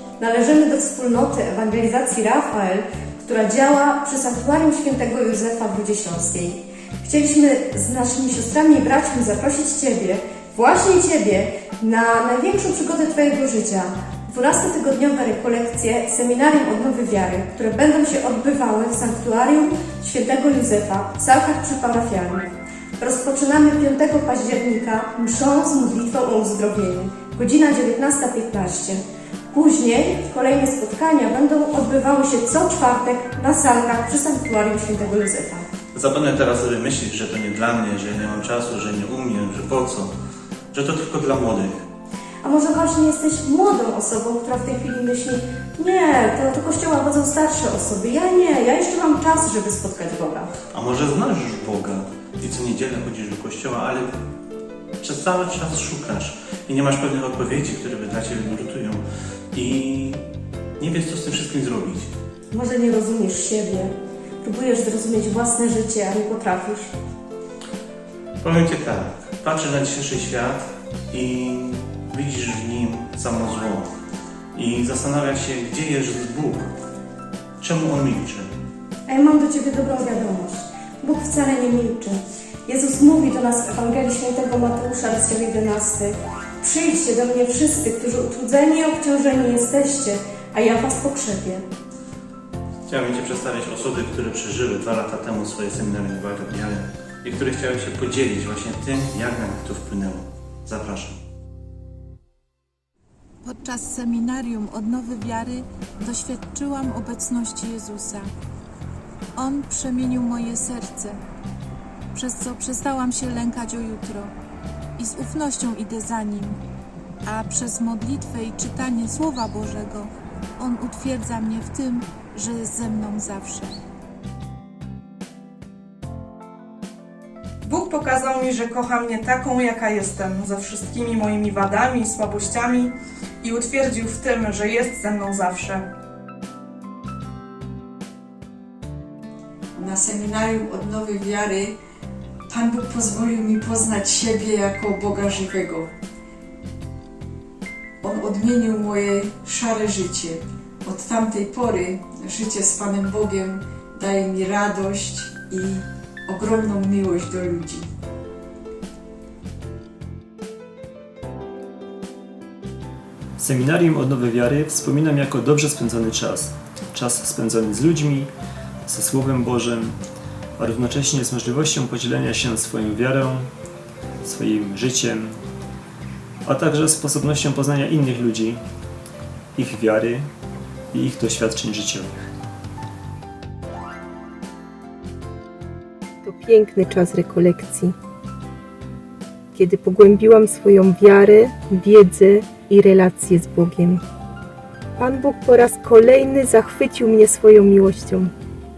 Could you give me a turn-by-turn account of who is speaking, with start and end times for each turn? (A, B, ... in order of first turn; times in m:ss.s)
0:00.2-0:35.7 A
0:35.9-0:40.1 B
0:40.7-0:41.8 B
0:42.4-0:50.5 A
0:50.7-0:54.1 B
0:55.0-1:00.2 B
1:00.8-1:02.1 B
1:02.5-1:06.9 A
1:08.4-1:13.9 B
1:14.6-1:16.7 B
1:17.6-1:18.5 B
1:19.1-1:31.6 A
1:32.9-1:41.2 B
1:43.4-1:48.3 C
1:49.4-1:51.2 C
1:52.1-1:54.3 C
1:55.0-1:56.6 C
1:57.3-2:03.7 C
2:07.6-2:15.9 D
2:19.8-2:21.8 E
2:22.5-2:25.9 E
2:28.0-2:37.9 E
2:43.4-2:48.3 F
2:48.9-2:50.0 F
2:50.6-2:53.5 F
2:54.2-2:55.4 F
2:56.4-2:58.6 F
2:59.6-3:00.3 F
3:00.9-3:02.1 F
3:06.2-3:08.0 G
3:09.6-3:14.0 G
3:15.0-3:18.3 G